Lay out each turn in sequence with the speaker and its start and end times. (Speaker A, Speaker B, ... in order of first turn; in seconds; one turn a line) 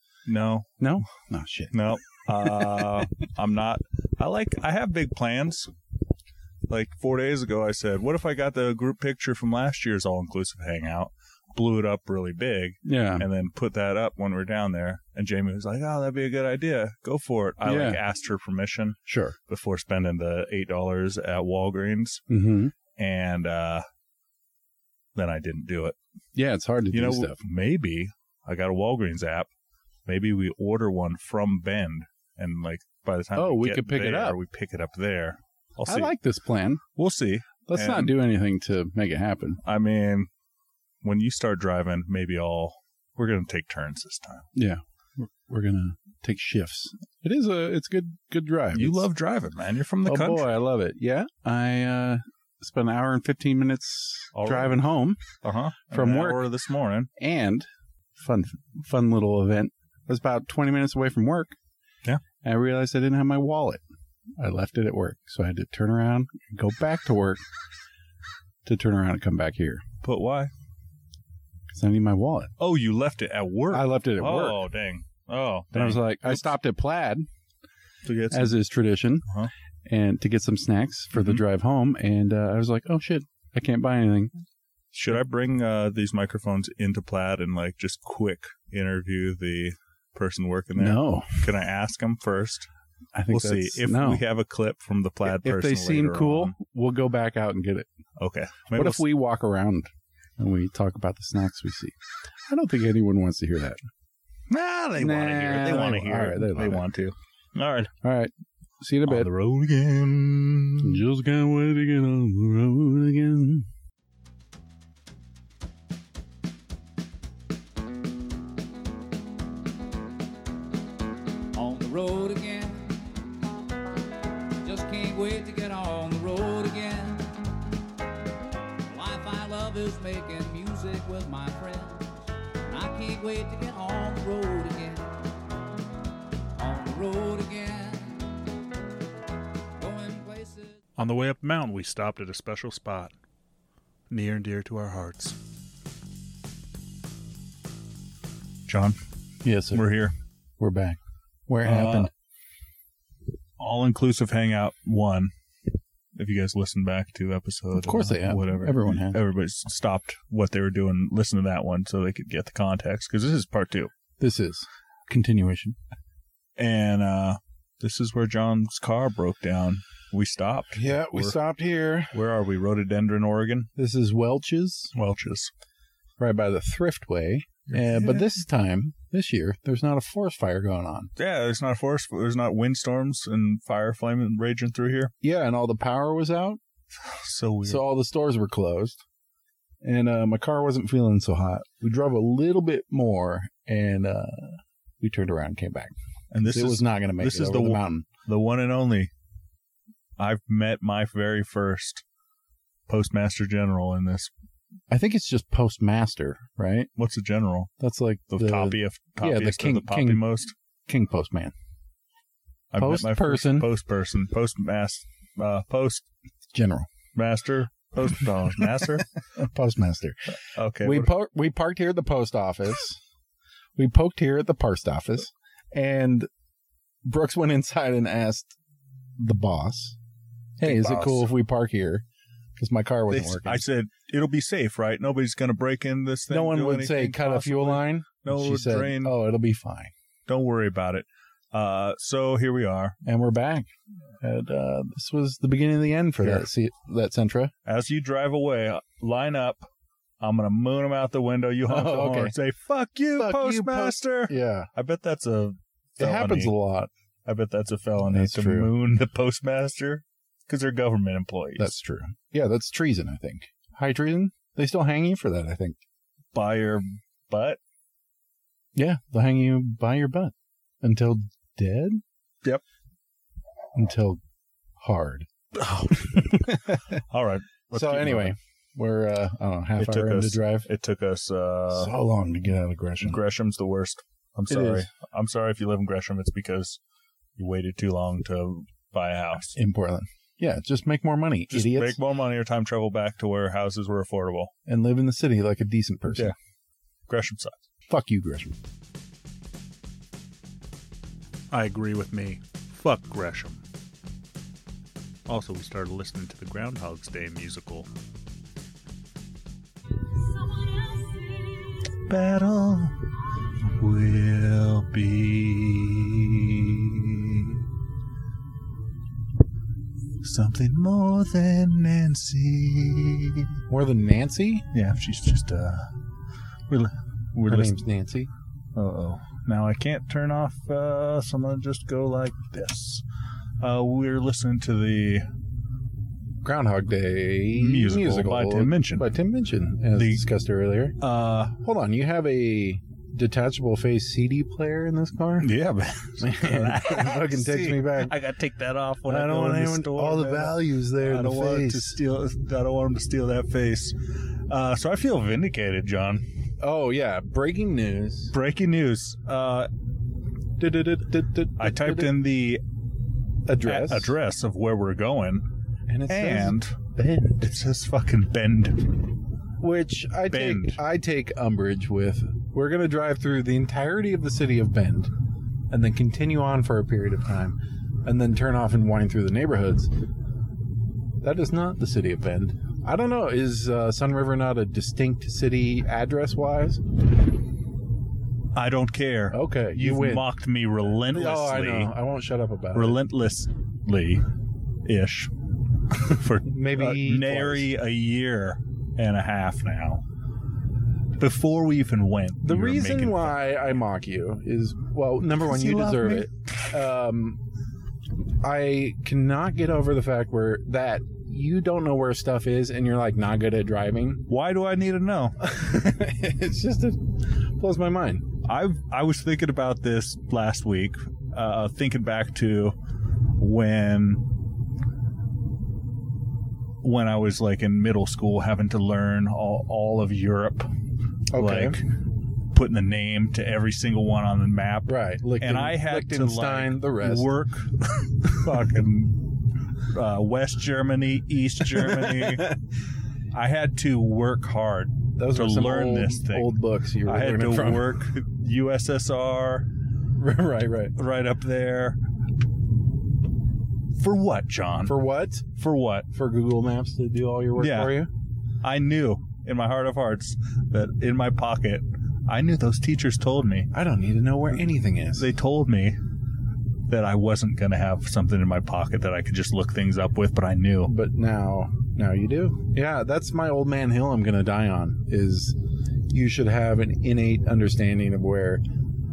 Speaker A: 0.3-0.7
Speaker B: 0.8-1.8
Speaker A: 1.7-5.7
Speaker B: 2.4-2.9
Speaker A: 6.7-22.2
Speaker B: 12.8-13.3
Speaker B: 17.6-18.0
Speaker B: 19.1-19.4
Speaker B: 22.3-22.7
Speaker A: 22.9-23.8
Speaker A: 25.1-26.0
Speaker B: 26.3-27.4
Speaker A: 26.9-29.5
Speaker A: 30.1-36.1
Speaker B: 33.3-34.4
Speaker B: 35.9-36.8
Speaker A: 37.0-38.2
Speaker B: 37.7-39.6
Speaker A: 39.6-40.3
Speaker A: 41.0-44.5
Speaker B: 44.5-49.1
Speaker A: 48.7-50.5
Speaker B: 50.0-55.2
Speaker A: 54.3-54.9
Speaker A: 55.4-57.1
Speaker B: 55.8-56.5
Speaker B: 57.2-61.5
Speaker B: 62.4-63.8
Speaker B: 64.4-67.4
Speaker B: 68.6-69.8
Speaker A: 70.0-70.5
Speaker B: 71.7-72.5
Speaker A: 72.6-76.5
Speaker B: 73.7-74.6
Speaker B: 75.7-77.2
Speaker A: 78.0-78.6
Speaker B: 78.3-79.2
Speaker B: 79.8-84.3
Speaker A: 81.1-81.4
Speaker A: 84.9-92.7
Speaker B: 90.8-91.5
Speaker B: 93.1-94.2
Speaker A: 93.3-96.5
Speaker B: 95.2-97.9
Speaker A: 98.2-99.0
Speaker B: 98.7-102.0
Speaker B: 102.5-103.8
Speaker A: 104.5-107.9
Speaker B: 105.0-106.9
Speaker B: 108.0-109.3
Speaker A: 109.0-111.0
Speaker B: 110.8-113.7
Speaker C: 121.5-123.1
Speaker C: 124.6-127.5
Speaker C: 128.9-135.2
Speaker C: 136.6-138.4
Speaker C: 139.8-140.8
Speaker A: 141.0-143.1
Speaker A: 144.1-145.4
Speaker A: 148.7-149.0
Speaker B: 149.4-149.9
Speaker A: 149.7-150.1
Speaker B: 150.6-152.1
Speaker A: 151.6-152.1
Speaker A: 153.6-155.3
Speaker A: 156.1-163.9
Speaker B: 157.7-159.2
Speaker B: 164.2-165.8
Speaker A: 166.6-171.4
Speaker B: 170.8-172.2
Speaker A: 172.1-173.7
Speaker B: 173.8-174.9
Speaker A: 174.9-175.5
Speaker B: 176.2-181.1
Speaker A: 177.7-178.3
Speaker A: 181.2-185.1
Speaker B: 185.2-186.6
Speaker A: 187.0-187.9
Speaker B: 187.6-189.0
Speaker B: 189.8-198.1
Speaker A: 196.3-199.1
Speaker A: 200.2-202.0
Speaker A: 202.9-204.3
Speaker B: 204.9-206.9
Speaker A: 206.9-207.7
Speaker B: 207.8-210.3
Speaker A: 208.3-210.5
Speaker B: 210.9-211.5
Speaker A: 212.7-216.1
Speaker B: 212.8-213.7
Speaker B: 216.5-216.9
Speaker A: 217.2-219.1
Speaker B: 218.5-223.0
Speaker A: 220.5-221.1
Speaker B: 223.8-226.3
Speaker B: 227.0-228.5
Speaker B: 229.2-229.9
Speaker B: 230.6-232.0
Speaker A: 230.6-231.3
Speaker B: 232.6-233.6
Speaker A: 233.1-239.1
Speaker B: 236.3-239.9
Speaker A: 240.3-243.0
Speaker B: 243.0-243.7
Speaker B: 244.2-247.5
Speaker A: 246.2-246.5
Speaker A: 247.7-249.7
Speaker A: 250.2-256.5
Speaker B: 251.7-252.3
Speaker B: 253.1-254.7
Speaker B: 256.0-256.9
Speaker A: 257.2-261.8
Speaker B: 258.1-258.7
Speaker B: 261.6-265.8
Speaker A: 266.3-267.6
Speaker B: 268.7-272.0
Speaker B: 273.7-274.2
Speaker B: 274.8-275.3
Speaker A: 275.5-278.3
Speaker B: 276.1-276.8
Speaker B: 277.7-280.7
Speaker A: 279.8-281.9
Speaker B: 281.7-283.2
Speaker A: 283.0-286.8
Speaker B: 284.5-284.9
Speaker A: 287.4-289.6
Speaker B: 289.5-292.0
Speaker A: 291.5-294.5
Speaker B: 294.6-296.3
Speaker A: 296.1-296.3
Speaker A: 297.1-297.6
Speaker B: 297.9-298.5
Speaker A: 301.5-303.6
Speaker A: 305.3-307.9
Speaker A: 312.0-313.0
Speaker A: 313.7-317.5
Speaker A: 320.2-323.5
Speaker B: 323.7-324.6
Speaker A: 324.7-325.9
Speaker A: 326.7-327.8
Speaker B: 327.5-328.3
Speaker A: 328.7-333.0
Speaker A: 333.6-335.2
Speaker B: 336.4-341.0
Speaker A: 337.5-339.1
Speaker A: 339.9-340.2
Speaker A: 341.0-341.5
Speaker B: 341.5-345.5
Speaker A: 345.4-353.9
Speaker B: 346.2-348.1
Speaker B: 349.1-352.0
Speaker A: 354.5-356.2
Speaker B: 356.6-358.3
Speaker A: 358.3-359.7
Speaker B: 360.6-362.2
Speaker A: 361.6-362.6
Speaker B: 363.4-364.1
Speaker A: 363.6-365.5
Speaker B: 365.9-367.4
Speaker A: 366.1-366.8
Speaker A: 367.3-369.0
Speaker B: 369.6-375.1
Speaker A: 370.3-370.8
Speaker B: 375.7-379.9
Speaker B: 381.2-386.8
Speaker A: 388.5-391.9
Speaker B: 389.3-393.0
Speaker A: 392.7-394.2
Speaker A: 394.8-395.3
Speaker A: 396.0-400.0
Speaker B: 396.4-397.7
Speaker A: 401.2-403.8
Speaker B: 402.4-407.4
Speaker A: 405.4-406.7
Speaker B: 408.4-414.2
Speaker A: 414.3-415.5
Speaker B: 415.4-418.3
Speaker A: 418.4-422.8
Speaker A: 423.4-424.3
Speaker A: 426.8-430.7
Speaker B: 431.3-431.8
Speaker A: 431.3-431.8
Speaker A: 432.5-442.5
Speaker B: 434.9-437.3
Speaker B: 441.7-442.6
Speaker A: 443.3-449.7
Speaker B: 445.2-448.1
Speaker B: 450.2-450.9
Speaker A: 450.9-452.0
Speaker A: 454.0-455.0
Speaker B: 454.8-455.4
Speaker A: 455.6-456.1
Speaker B: 456.1-458.1
Speaker A: 457.6-458.1
Speaker A: 458.6-463.7
Speaker B: 463.7-465.3
Speaker A: 465.1-466.0
Speaker A: 466.9-470.9
Speaker B: 470.9-475.6
Speaker B: 476.1-478.6